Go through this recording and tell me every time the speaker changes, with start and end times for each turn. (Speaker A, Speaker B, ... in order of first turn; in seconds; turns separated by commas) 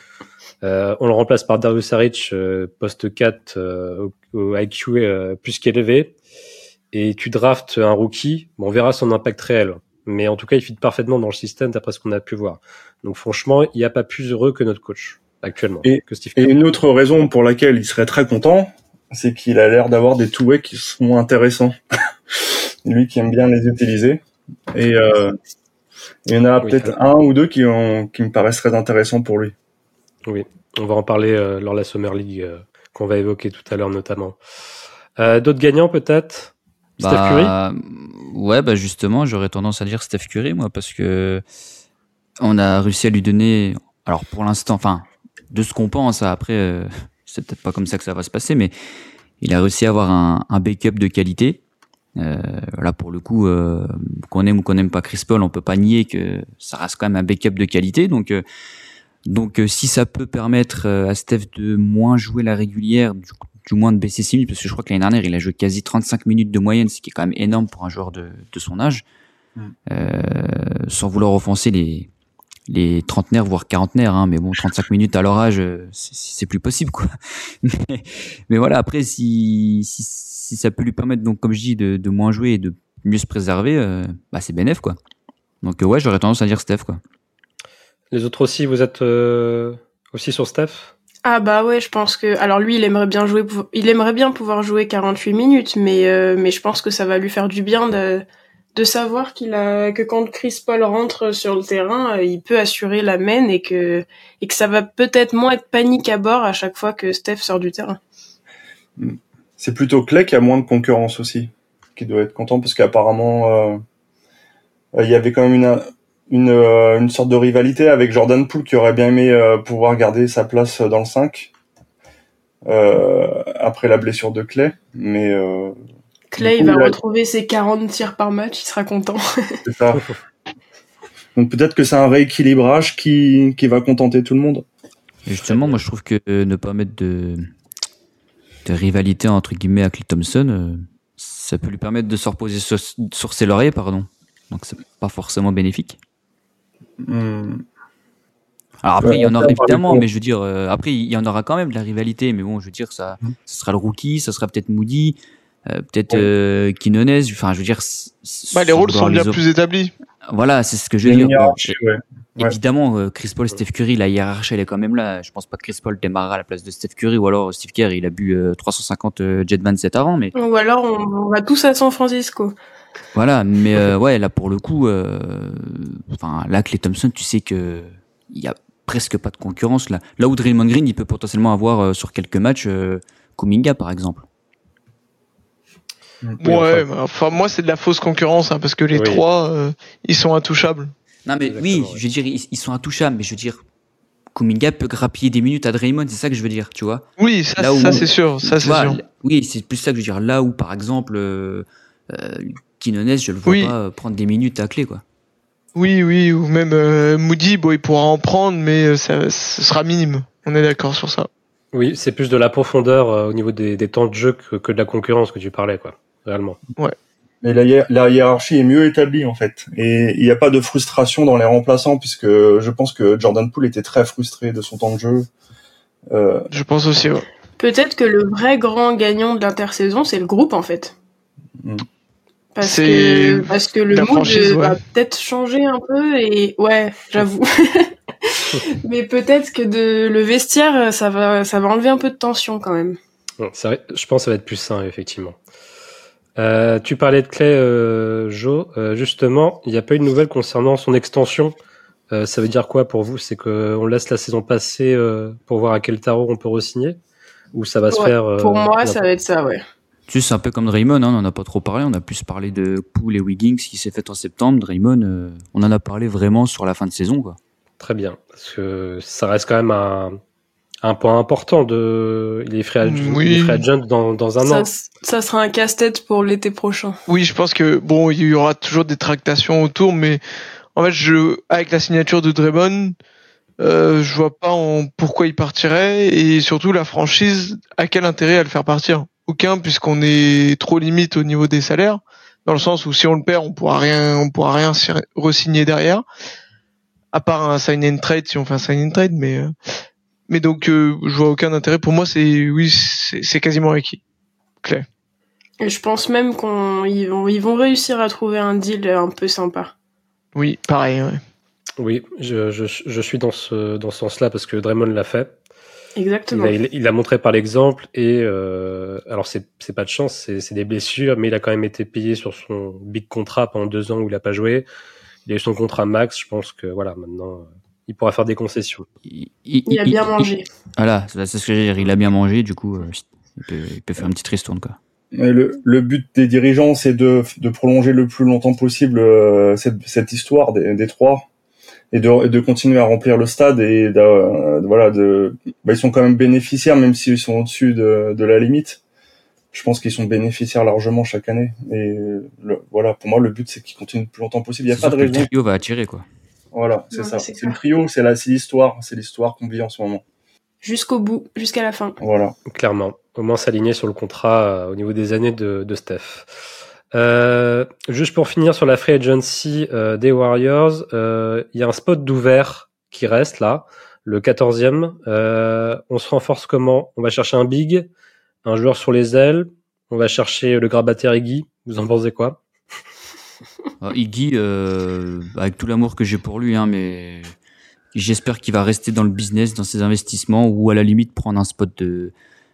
Speaker A: 0.6-6.1, Speaker A: 6.9-16.5, Speaker B: 15.8-21.8, Speaker B: 22.3-25.4, Speaker B: 26.3-29.5, Speaker A: 26.6-26.9, Speaker A: 30.3-34.4, Speaker A: 35.2-37.5, Speaker C: 37.0-41.4, Speaker C: 42.4-48.7, Speaker C: 49.4-51.6, Speaker C: 52.2-58.4, Speaker C: 59.3-69.0, Speaker C: 69.9-72.1, Speaker C: 72.7-77.1, Speaker C: 77.6-85.0, Speaker C: 85.6-87.0, Speaker A: 88.1-90.9, Speaker D: 91.2-98.2, Speaker D: 98.8-108.0, Speaker B: 109.0-113.8, Speaker B: 115.0-121.5, Speaker B: 122.7-125.8, Speaker D: 126.3-129.6, Speaker B: 126.4-127.0, Speaker B: 129.7-130.1, Speaker B: 131.3-134.7, Speaker C: 135.3-137.5, Speaker A: 135.5-135.8, Speaker C: 138.7-146.0, Speaker B: 147.0-147.6, Speaker C: 148.8-159.4, Speaker B: 149.0-150.1, Speaker E: 158.5-159.9, Speaker C: 160.3-161.8, Speaker B: 161.1-162.6, Speaker C: 162.4-170.3, Speaker D: 170.4-172.5, Speaker C: 173.1-184.2, Speaker E: 186.4-190.9, Speaker A: 188.9-189.2, Speaker C: 191.3-193.6, Speaker A: 191.5-192.0, Speaker C: 194.3-197.1, Speaker E: 197.2-199.0, Speaker C: 197.6-205.0, Speaker E: 203.5-203.7, Speaker E: 205.8-211.3, Speaker A: 211.7-216.6, Speaker B: 217.4-225.3, Speaker B: 226.1-226.5, Speaker E: 226.5-227.3, Speaker D: 227.6-230.9, Speaker D: 232.6-243.0, Speaker E: 232.6-234.8, Speaker A: 243.4-245.4, Speaker A: 246.4-251.6, Speaker A: 252.1-257.0, Speaker A: 257.5-259.0, Speaker D: 257.9-259.6, Speaker C: 260.1-267.4, Speaker A: 267.8-270.2, Speaker A: 270.8-274.7, Speaker E: 272.9-273.6, Speaker D: 274.4-277.0, Speaker E: 277.1-280.2, Speaker E: 280.8-282.9, Speaker E: 283.6-296.0, Speaker E: 297.1-299.5, Speaker E: 300.3-304.0, Speaker D: 305.6-309.7, Speaker E: 310.4-311.2, Speaker A: 311.8-315.4, Speaker D: 316.0-316.6, Speaker A: 316.3-324.7, Speaker A: 325.3-328.9, Speaker C: 329.1-334.8, Speaker D: 329.7-330.5, Speaker B: 335.1-341.3, Speaker B: 341.9-348.8, Speaker B: 349.5-355.3, Speaker C: 354.7-356.1, Speaker B: 356.5-360.0, Speaker D: 356.9-357.6, Speaker D: 360.6-362.0, Speaker B: 362.0-362.4, Speaker A: 362.5-366.4, Speaker A: 366.9-377.9, Speaker A: 378.4-382.4, Speaker C: 383.8-387.3, Speaker C: 387.9-392.1